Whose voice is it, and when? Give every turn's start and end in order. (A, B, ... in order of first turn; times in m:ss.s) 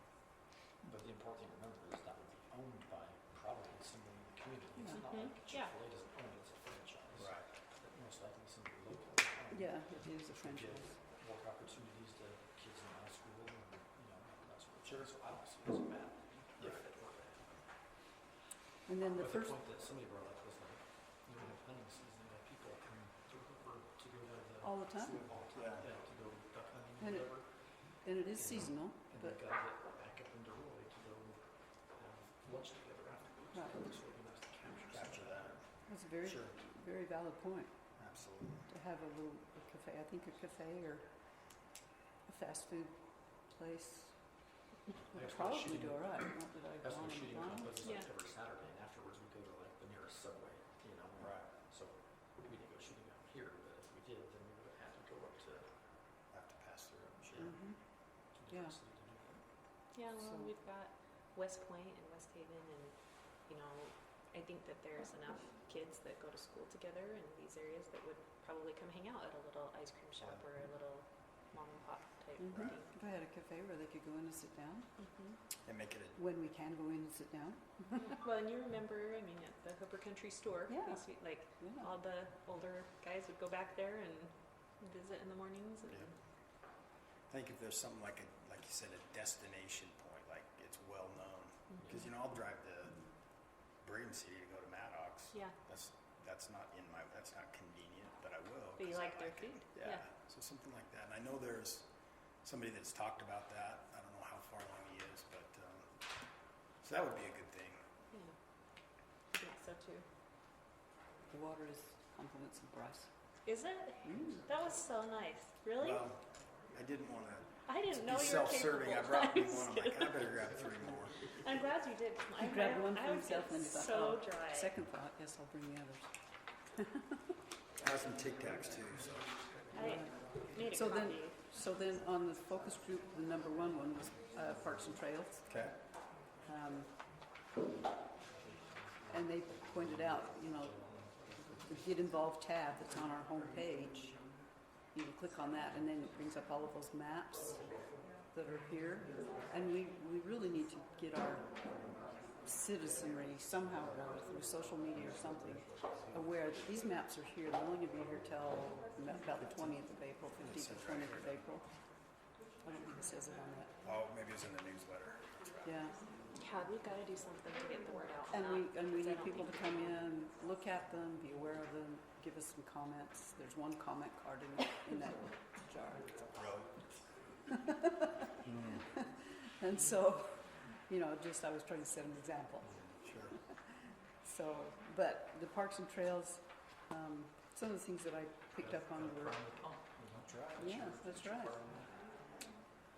0:00.8-0:17.6 A
0:04.9-0:05.7 B
0:07.2-0:07.4 C
0:09.5-0:11.0 D
0:14.8-0:15.1 C
0:18.9-0:19.6 D
0:19.1-0:27.8 A
0:24.6-0:25.2 D
0:25.1-0:25.9 C
0:27.0-0:27.3 D
0:27.8-0:29.4 D
0:28.3-0:35.7 A
0:33.5-0:33.8 D
0:34.9-0:35.6 C
0:35.9-0:37.8 D
0:36.3-0:36.5 A
0:38.0-0:38.7 C
0:38.7-0:41.5 D
0:42.3-0:44.5 D
0:45.0-0:55.7 A
0:45.1-0:48.0 D
0:47.8-0:48.1 B
0:51.2-0:51.5 C
0:56.3-0:57.5 C
0:57.3-0:57.8 A
0:57.4-0:58.8 D
0:58.3-0:59.4 A
0:59.9-1:12.9 B
1:00.2-1:00.5 D
1:12.4-1:14.9 D
1:15.6-1:16.2 C
1:16.2-1:18.0 D
1:18.0-1:26.1 B
1:20.7-1:21.0 D
1:21.6-1:21.9 D
1:27.3-1:33.1 C
1:33.8-1:41.9 C
1:38.8-1:40.0 B
1:42.4-1:45.9 C
1:46.8-1:47.8 C
1:49.3-1:50.0 B
1:51.3-1:53.1 D
1:53.4-1:56.0 B
1:54.0-1:54.4 D
1:55.8-2:01.3 C
1:57.7-2:00.3 B
2:01.2-2:04.7 B
2:02.4-2:06.1 D
2:07.8-2:09.4 C
2:09.7-2:11.4 B
2:09.8-2:15.4 D
2:15.5-2:15.7 C
2:16.4-2:16.9 D
2:19.1-2:20.8 D
2:20.6-2:21.4 A
2:21.5-2:24.2 D
2:24.9-2:27.7 D
2:28.3-2:31.5 D
2:32.4-2:41.6 D
2:40.4-2:41.4 C
2:42.6-2:43.7 D
2:43.8-2:45.8 C
2:45.6-2:46.0 D
2:46.4-2:49.8 B
2:48.3-2:56.1 D
2:56.3-2:56.8 C
2:57.6-2:58.1 D
2:58.4-2:58.8 C
2:59.4-3:02.8 D
3:02.7-3:03.4 C
3:04.2-3:09.4 D
3:08.6-3:10.4 A
3:10.2-3:11.8 C
3:10.6-3:11.6 D